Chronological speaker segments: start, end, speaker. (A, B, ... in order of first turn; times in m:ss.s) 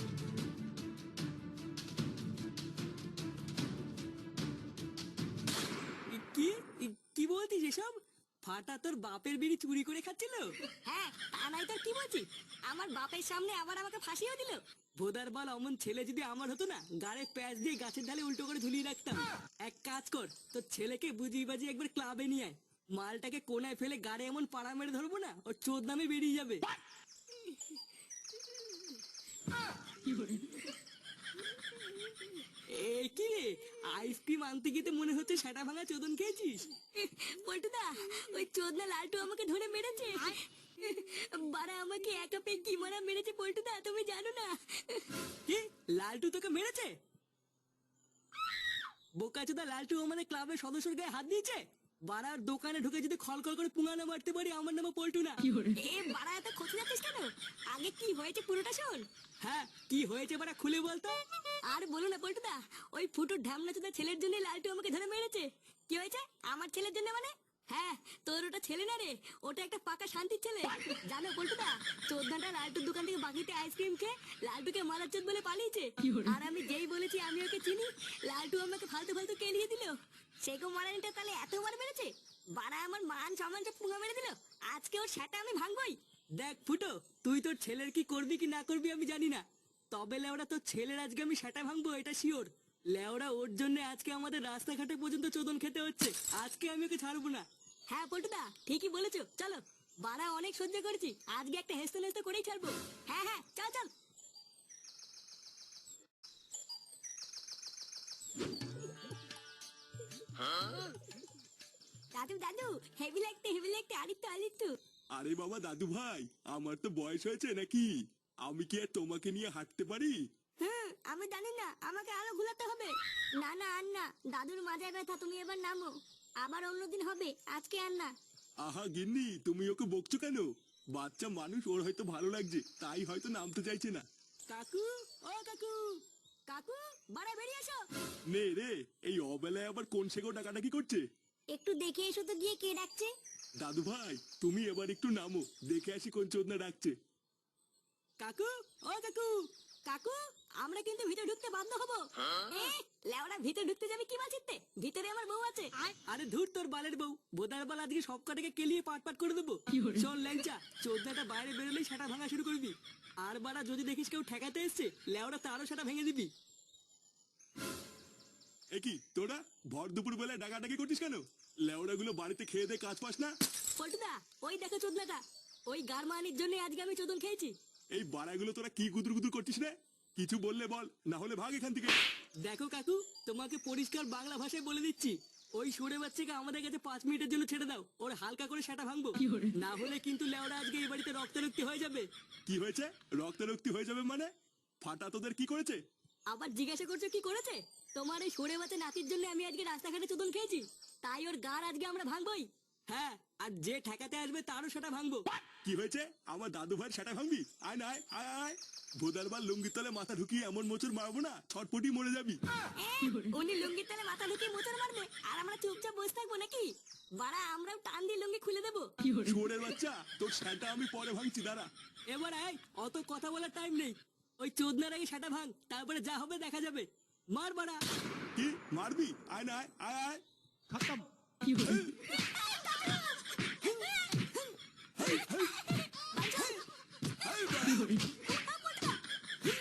0:06.1-0:10.5 A
0:10.9-0:14.6 B
0:15.0-0:26.6 A
0:32.7-0:36.7 A
0:37.0-0:45.2 B
0:45.5-0:47.0 A
0:49.2-0:55.6 A
0:55.7-0:59.0 B
0:59.4-1:01.2 A
1:01.7-1:26.0 B
1:26.4-1:37.5 A
1:37.9-1:43.9 B
1:52.1-1:54.8 B
1:55.1-1:57.9 C
1:58.4-2:00.2 C
2:00.6-2:08.1 B
2:08.6-2:14.0 C
2:14.5-2:16.0 A
2:16.5-2:17.8 B
2:18.3-2:21.0 C
2:21.5-2:23.1 B
2:23.6-2:26.9 C
2:28.2-2:29.5 A
2:29.9-2:35.7 B
2:36.1-2:46.3 A
2:48.7-2:53.3 C
2:53.8-2:57.6 B
2:57.9-3:02.0 C
3:02.4-3:12.1 A
3:12.5-3:15.8 C
3:16.3-3:22.5 B
3:22.9-3:25.2 A
3:25.6-3:32.4 C
3:32.8-3:38.9 B
3:39.2-3:41.7 C
3:42.1-3:47.8 A
3:48.4-3:51.0 C
3:51.6-3:52.0 C
3:52.1-3:56.7 B
3:55.0-3:55.4 C
3:57.2-3:58.0 C
3:58.1-3:59.0 B